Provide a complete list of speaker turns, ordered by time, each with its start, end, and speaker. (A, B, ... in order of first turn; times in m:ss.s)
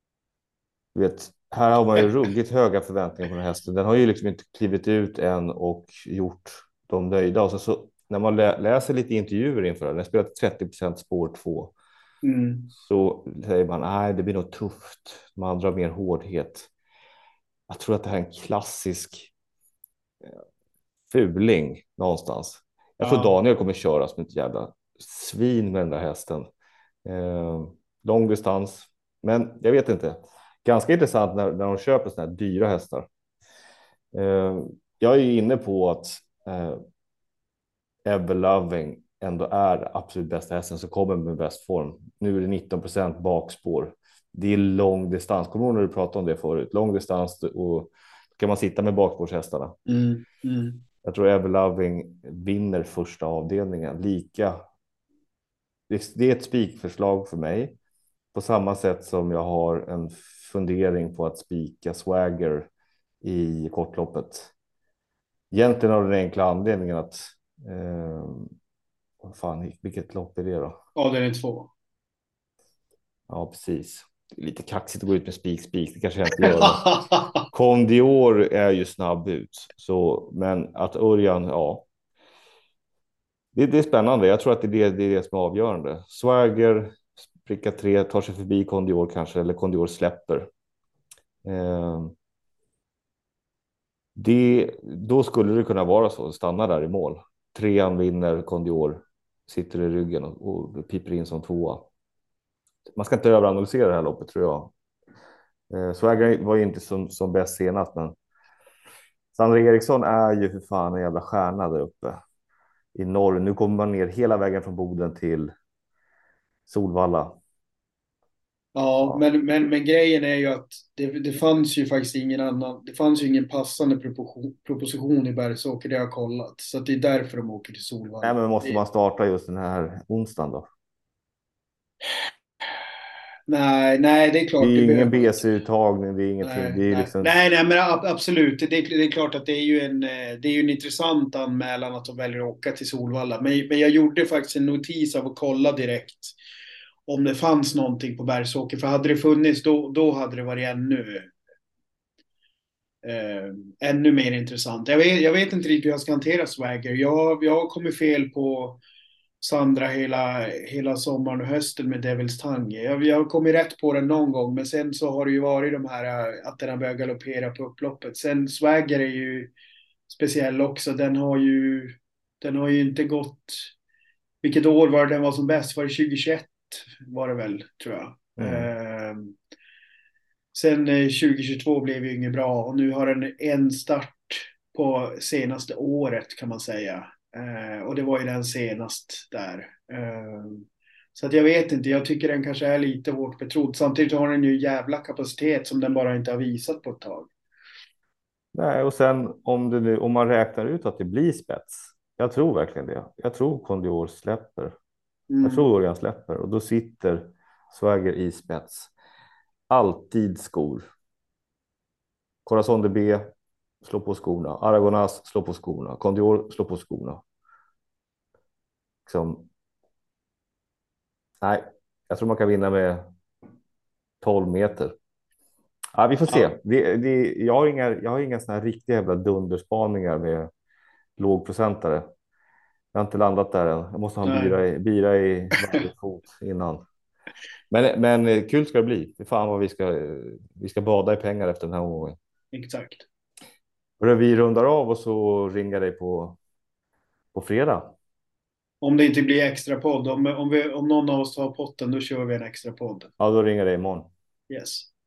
0:01.0-0:11.7 A
0:12.2-0:12.7 B
0:12.8-0:16.7 A
0:17.7-0:19.3 A
0:21.1-0:26.5 A
0:23.0-0:23.4 B
0:27.0-0:33.1 A
0:34.1-0:36.8 A
0:38.0-0:49.8 A
0:49.9-0:50.8 B
0:51.0-0:54.6 A
0:55.9-0:57.8 A
0:58.3-1:02.7 A
1:03.2-1:04.5 A
1:05.5-1:08.5 A
1:09.2-1:10.8 A
1:11.0-1:11.7 B
1:13.3-1:21.9 A
1:16.4-1:17.4 B
1:23.6-1:30.5 A
1:31.4-1:32.1 A
1:34.2-1:41.9 A
1:43.0-1:44.7 A
1:45.7-1:48.2 A
1:49.3-1:52.2 A
1:53.0-1:55.5 A
1:56.7-1:57.4 A
1:58.8-2:08.8 B
2:08.2-2:10.7 A
2:13.5-2:15.4 B
2:14.6-2:17.3 A
2:16.4-2:26.4 B
2:27.1-2:31.3 B
2:33.0-2:38.8 B
2:39.4-2:49.5 B
2:50.1-2:53.7 B
2:54.4-2:59.4 B
2:58.4-2:58.7 A
3:00.5-3:17.3 B
3:18.5-3:24.8 A
3:25.3-3:25.7 B
3:25.4-3:28.9 A
3:29.7-3:30.8 A
3:32.4-3:33.3 A
3:33.8-3:37.2 A
3:39.1-3:39.5 A
3:41.4-3:43.1 A
3:44.2-3:44.9 A
3:46.0-3:50.5 A
3:51.2-3:52.1 A
3:52.9-3:56.8 A
3:54.2-3:54.6 B
3:57.7-4:02.2 A
4:02.5-4:03.0 B
4:04.0-4:06.4 A
4:07.3-4:07.9 A
4:08.8-4:13.1 B
4:13.2-4:14.1 A
4:14.5-4:14.9 B